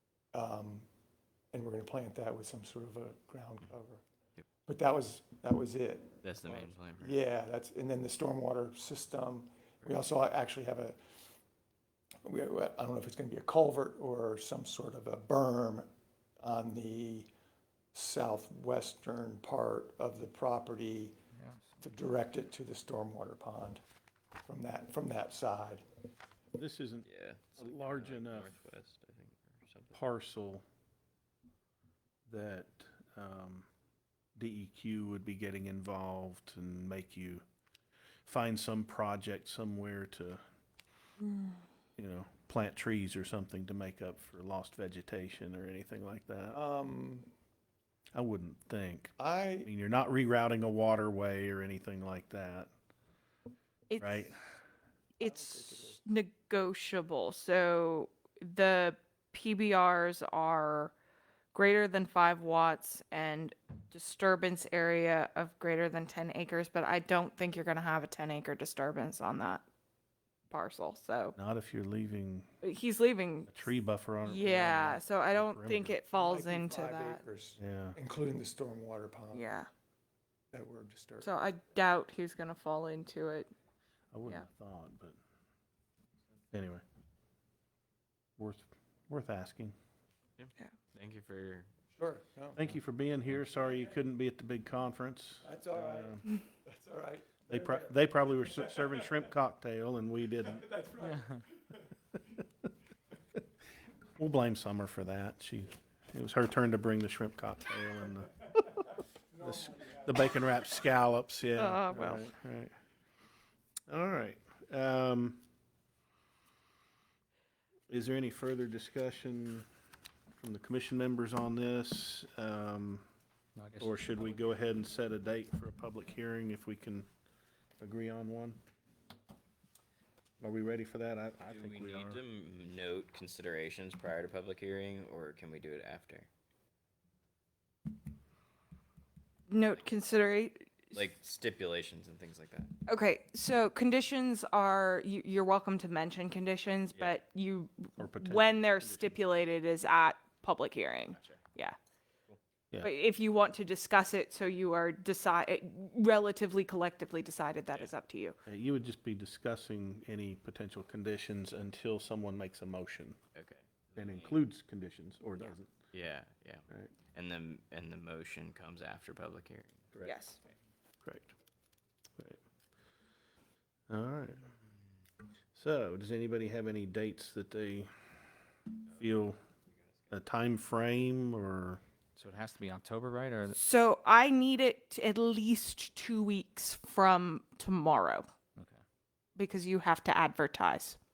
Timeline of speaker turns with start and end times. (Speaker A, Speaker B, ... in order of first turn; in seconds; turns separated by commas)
Speaker A: 0.3-0.9, Speaker A: 1.5-4.0, Speaker A: 4.7-11.0, Speaker B: 6.2-7.2, Speaker A: 12.2-15.9, Speaker A: 16.4-17.3, Speaker A: 17.9-21.1, Speaker C: 21.4-21.6, Speaker A: 21.8-23.8, Speaker A: 24.4-25.8, Speaker D: 26.5-27.1, Speaker B: 27.1-30.0, Speaker D: 27.6-28.5, Speaker D: 29.9-30.6, Speaker D: 32.2-33.7, Speaker D: 34.4-37.4, Speaker D: 38.2-40.4, Speaker D: 42.0-46.6, Speaker A: 46.5-47.3, Speaker D: 48.1-52.7, Speaker A: 49.2-49.7, Speaker E: 53.9-54.3, Speaker D: 54.0-54.4, Speaker E: 55.2-60.9, Speaker A: 55.2-56.0, Speaker E: 61.5-69.6, Speaker E: 70.5-71.3, Speaker D: 71.3-72.5, Speaker E: 72.6-73.5, Speaker D: 73.5-76.0, Speaker E: 74.2-77.2, Speaker A: 76.1-79.6, Speaker D: 77.6-78.0, Speaker E: 79.3-79.7, Speaker A: 80.5-81.3, Speaker E: 81.2-83.5, Speaker D: 84.1-85.2, Speaker D: 86.5-86.8, Speaker D: 88.4-89.7, Speaker B: 90.4-91.7, Speaker A: 92.0-92.6, Speaker D: 92.5-96.2, Speaker A: 95.4-99.2, Speaker D: 97.5-100.7, Speaker A: 100.5-101.8, Speaker C: 101.0-101.4, Speaker D: 104.2-108.8, Speaker A: 109.3-110.1, Speaker D: 109.4-112.7, Speaker E: 111.5-112.3, Speaker D: 113.9-115.4, Speaker D: 117.9-119.7, Speaker D: 120.3-123.0, Speaker C: 123.5-124.5, Speaker D: 123.8-127.1, Speaker D: 127.8-128.6, Speaker D: 130.4-132.2, Speaker B: 131.4-136.3, Speaker E: 139.5-141.0, Speaker B: 140.9-142.8, Speaker E: 142.8-151.8, Speaker D: 148.0-149.3, Speaker B: 151.1-151.4, Speaker E: 152.8-158.3, Speaker D: 158.4-163.2, Speaker B: 163.3-164.4, Speaker D: 163.9-165.7, Speaker B: 165.9-170.1, Speaker E: 170.0-170.4, Speaker D: 171.0-171.3, Speaker D: 173.9-174.5, Speaker D: 175.5-177.9, Speaker B: 178.8-180.1, Speaker D: 178.9-179.4, Speaker D: 180.1-181.8, Speaker C: 182.2-183.6, Speaker E: 183.5-188.2, Speaker C: 188.6-188.8, Speaker E: 189.3-191.0